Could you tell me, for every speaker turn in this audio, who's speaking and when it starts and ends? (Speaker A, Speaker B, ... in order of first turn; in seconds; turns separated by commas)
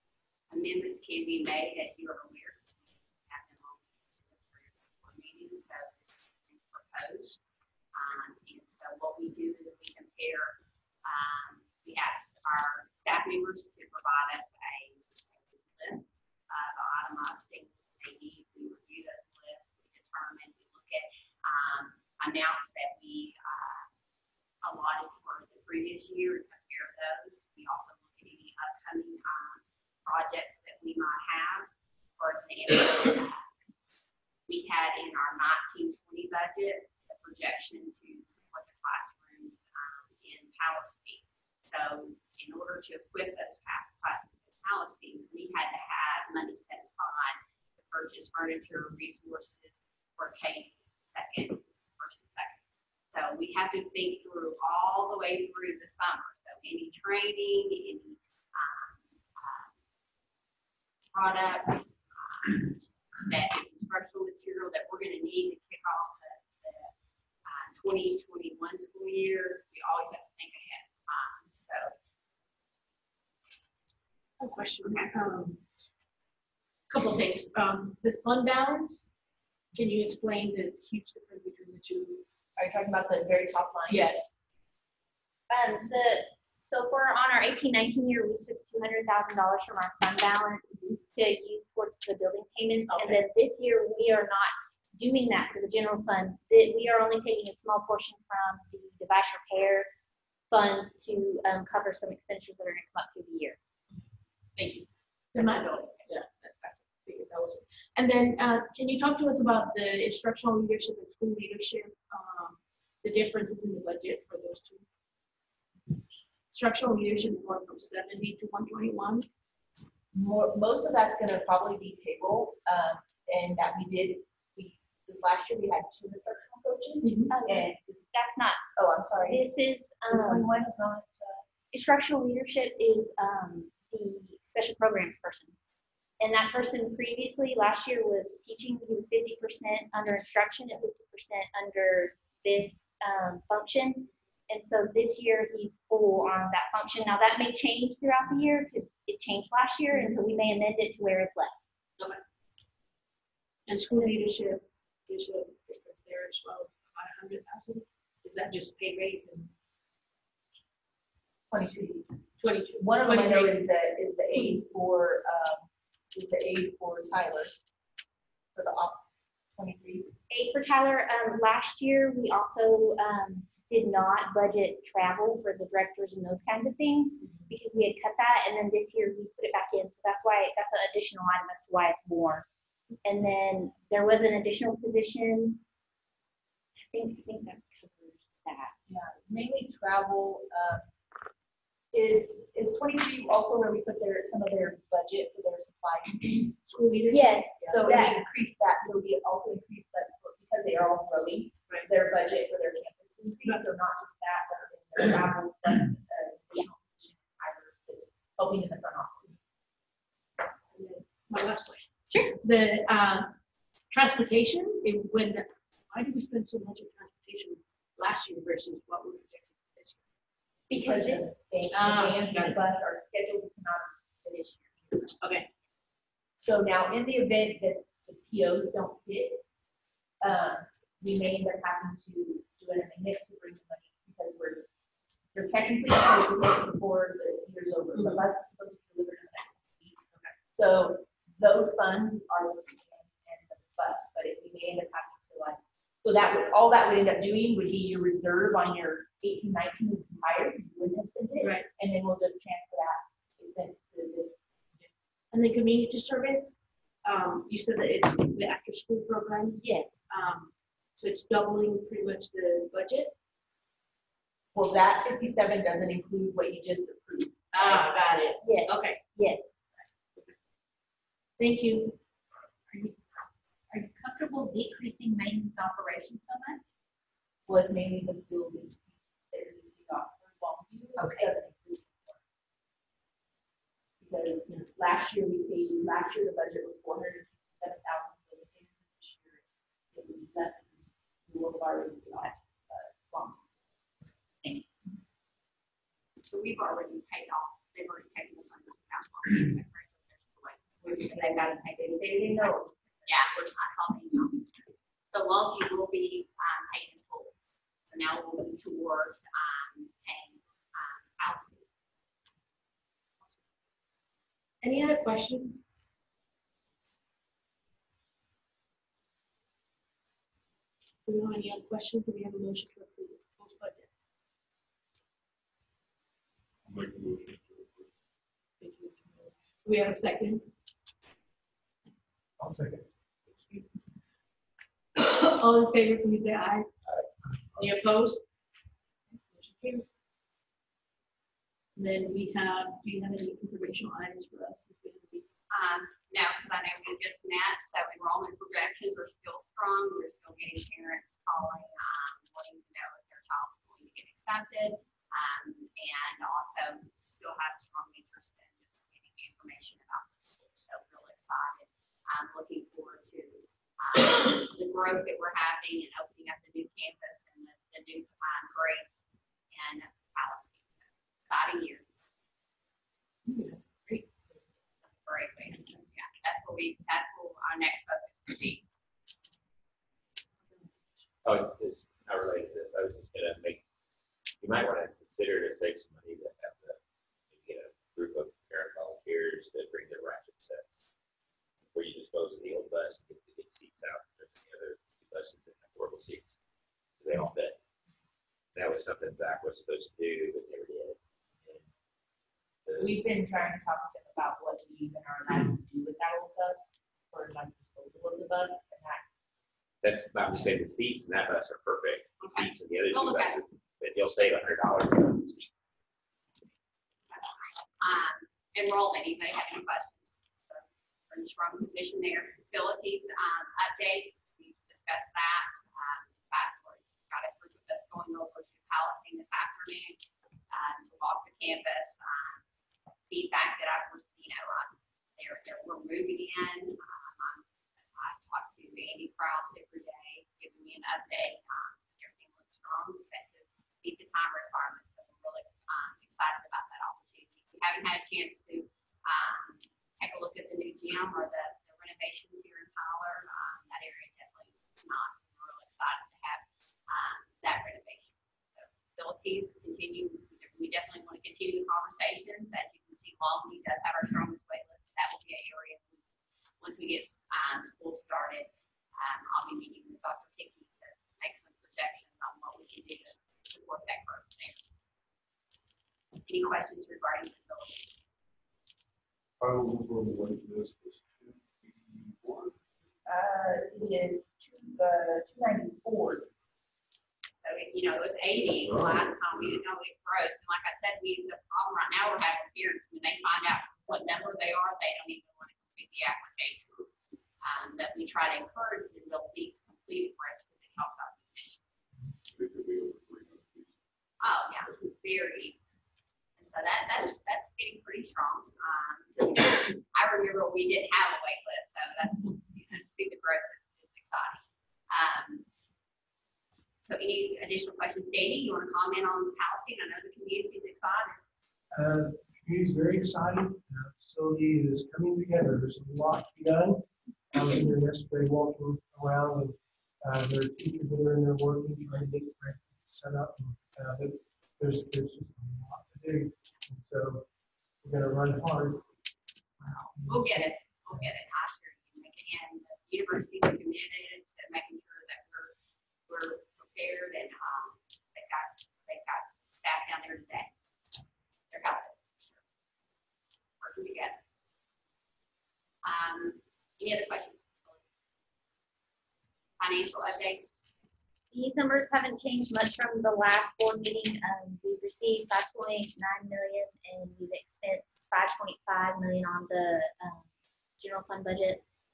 Speaker A: 0.5-7.4, Speaker A: 7.9-23.9, Speaker A: 24.6-33.5, Speaker A: 34.5-52.6, Speaker A: 53.1-59.7, Speaker A: 61.1-66.9, Speaker A: 67.5-72.0, Speaker B: 74.4-75.6, Speaker A: 74.8-75.1, Speaker B: 76.9-79.1, Speaker B: 79.7-82.2, Speaker C: 82.6-84.1, Speaker B: 83.9-84.3, Speaker D: 85.5-99.9, Speaker B: 92.8-93.2, Speaker D: 100.5-103.6, Speaker A: 104.6-104.8, Speaker B: 105.3-114.8, Speaker B: 116.5-119.3, Speaker C: 120.1-128.0, Speaker B: 127.0-127.3, Speaker D: 127.3-128.6, Speaker C: 128.8-129.4, Speaker D: 129.2-130.7, Speaker C: 130.1-131.4, Speaker D: 131.7-135.5, Speaker D: 136.2-151.7, Speaker B: 153.7-159.5, Speaker C: 161.5-162.1, Speaker B: 162.4-163.7, Speaker C: 162.8-167.5, Speaker C: 168.6-169.1, Speaker C: 169.6-170.1, Speaker D: 170.3-182.5, Speaker C: 177.2-177.5, Speaker D: 183.1-185.6, Speaker D: 186.9-188.8, Speaker C: 188.9-190.9, Speaker C: 191.9-196.6, Speaker B: 196.7-197.8, Speaker D: 197.1-198.2, Speaker C: 197.7-209.4, Speaker B: 210.7-213.4, Speaker B: 213.9-220.0, Speaker D: 220.7-221.3, Speaker C: 220.7-225.2, Speaker B: 221.7-222.6, Speaker B: 225.2-225.5, Speaker C: 226.4-229.4, Speaker C: 230.2-234.7, Speaker C: 235.3-254.9, Speaker B: 237.9-238.2, Speaker B: 251.4-251.7, Speaker B: 255.3-263.1, Speaker D: 259.6-259.9, Speaker C: 264.5-267.9, Speaker B: 267.5-269.0, Speaker D: 268.4-269.5, Speaker B: 271.4-272.0, Speaker E: 273.7-276.6, Speaker C: 277.5-282.2, Speaker E: 281.0-281.3, Speaker C: 284.0-293.4, Speaker A: 296.2-302.6, Speaker C: 300.8-303.3, Speaker A: 303.1-304.5, Speaker A: 305.1-307.3, Speaker A: 307.9-311.7, Speaker B: 314.6-315.6, Speaker B: 321.1-323.9, Speaker F: 326.6-327.9, Speaker B: 328.6-330.5, Speaker G: 332.4-332.9, Speaker B: 333.3-333.7, Speaker B: 335.0-336.7, Speaker G: 337.2-337.6, Speaker B: 337.6-338.2, Speaker B: 339.1-339.9, Speaker B: 341.8-345.2, Speaker A: 345.5-371.9, Speaker B: 373.3-374.4, Speaker A: 374.9-378.6, Speaker B: 380.5-380.7, Speaker H: 381.2-383.6, Speaker H: 384.4-386.8, Speaker H: 387.3-390.8, Speaker H: 391.7-396.3, Speaker H: 397.0-397.6, Speaker H: 398.6-401.6, Speaker H: 402.7-403.0, Speaker C: 402.8-409.1, Speaker H: 409.8-415.5, Speaker A: 412.2-413.4, Speaker A: 417.1-432.4, Speaker A: 433.1-437.4, Speaker A: 438.0-466.0, Speaker A: 466.6-474.6, Speaker A: 476.3-478.0, Speaker F: 479.4-482.6, Speaker C: 483.1-486.3, Speaker A: 487.4-496.7, Speaker F: 488.7-489.0, Speaker A: 497.4-501.6, Speaker F: 502.3-503.7, Speaker A: 504.2-505.6, Speaker A: 506.4-515.5, Speaker A: 516.8-521.2, Speaker G: 521.7-537.2, Speaker G: 537.8-538.9, Speaker G: 539.6-541.1, Speaker A: 540.0-545.5, Speaker A: 546.1-550.5, Speaker A: 551.5-552.4, Speaker A: 553.6-554.2, Speaker A: 555.8-557.9, Speaker A: 559.6-560.5, Speaker D: 561.3-570.3, Speaker D: 570.8-571.6